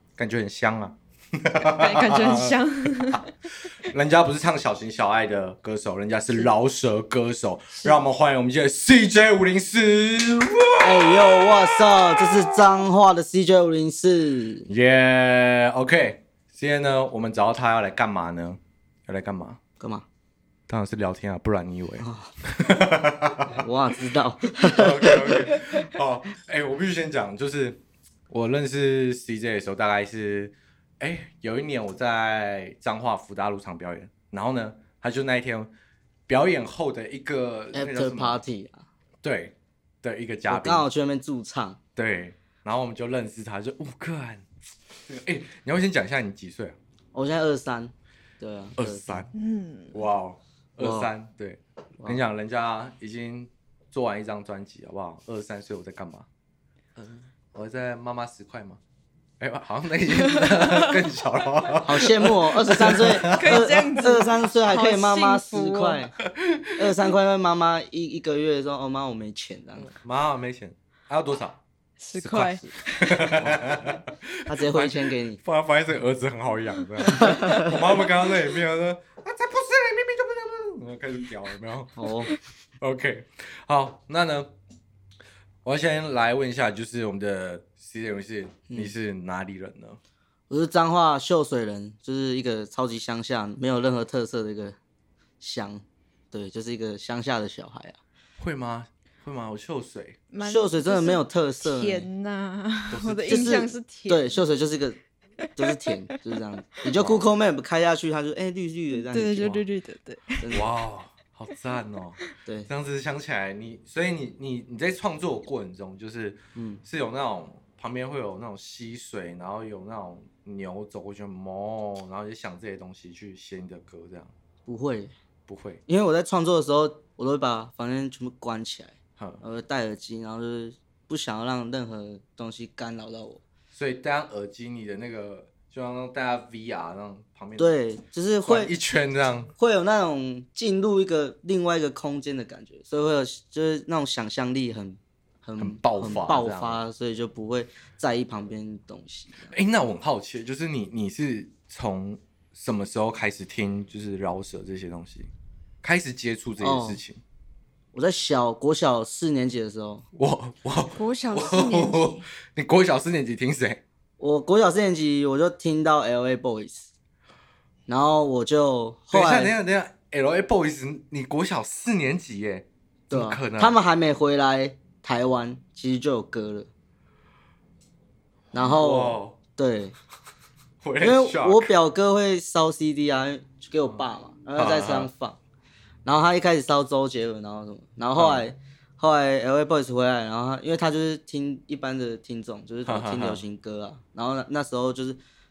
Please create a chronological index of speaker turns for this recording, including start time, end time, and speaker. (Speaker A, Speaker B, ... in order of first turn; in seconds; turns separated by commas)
Speaker A: 0.2-2.6, Speaker B: 1.6-3.3, Speaker A: 3.9-12.6, Speaker C: 10.8-14.7, Speaker A: 14.7-19.6, Speaker C: 19.8-20.1, Speaker A: 20.7-23.6, Speaker C: 22.0-22.3, Speaker C: 23.5-25.6, Speaker A: 24.6-35.7, Speaker A: 36.3-38.4, Speaker C: 37.7-38.9, Speaker A: 39.2-40.9, Speaker C: 40.5-41.8, Speaker A: 42.0-44.5, Speaker A: 45.1-46.8, Speaker C: 47.1-49.3, Speaker A: 48.8-49.3, Speaker B: 49.3-50.0, Speaker A: 49.9-56.3, Speaker C: 50.8-51.1, Speaker A: 57.0-58.8, Speaker A: 59.4-63.7, Speaker B: 60.3-60.9, Speaker C: 61.8-66.1, Speaker B: 62.8-66.0, Speaker A: 66.2-66.8, Speaker C: 66.8-69.9, Speaker A: 69.8-71.6, Speaker B: 72.0-73.3, Speaker C: 72.2-72.8, Speaker A: 72.9-82.1, Speaker C: 74.5-75.4, Speaker C: 77.2-77.7, Speaker C: 82.0-82.3, Speaker A: 82.8-84.5, Speaker A: 85.7-90.0, Speaker C: 90.5-94.8, Speaker C: 95.4-98.0, Speaker A: 98.4-100.2, Speaker B: 100.3-104.4, Speaker C: 100.4-102.1, Speaker A: 102.9-103.7, Speaker C: 103.3-105.0, Speaker C: 105.6-109.6, Speaker B: 105.6-106.0, Speaker A: 106.9-107.2, Speaker B: 109.1-110.5, Speaker C: 110.4-110.7, Speaker A: 110.5-124.3, Speaker C: 116.5-116.8, Speaker C: 124.7-125.1, Speaker A: 125.5-125.8, Speaker C: 125.9-133.4, Speaker A: 129.2-129.4, Speaker A: 133.7-137.7, Speaker C: 137.6-138.7, Speaker A: 138.4-139.5, Speaker C: 139.6-149.5, Speaker A: 145.6-146.8, Speaker A: 149.5-155.3, Speaker A: 155.8-157.2, Speaker C: 156.6-157.0, Speaker C: 157.9-160.1, Speaker A: 160.2-163.8, Speaker B: 160.9-162.3, Speaker C: 164.2-166.9, Speaker C: 167.9-169.5, Speaker A: 169.1-173.8, Speaker C: 173.1-176.7, Speaker C: 178.5-179.9, Speaker A: 178.6-179.4, Speaker A: 180.8-181.7, Speaker C: 181.0-185.4, Speaker A: 184.6-185.1, Speaker C: 186.1-195.2, Speaker A: 188.2-188.5, Speaker A: 192.9-193.4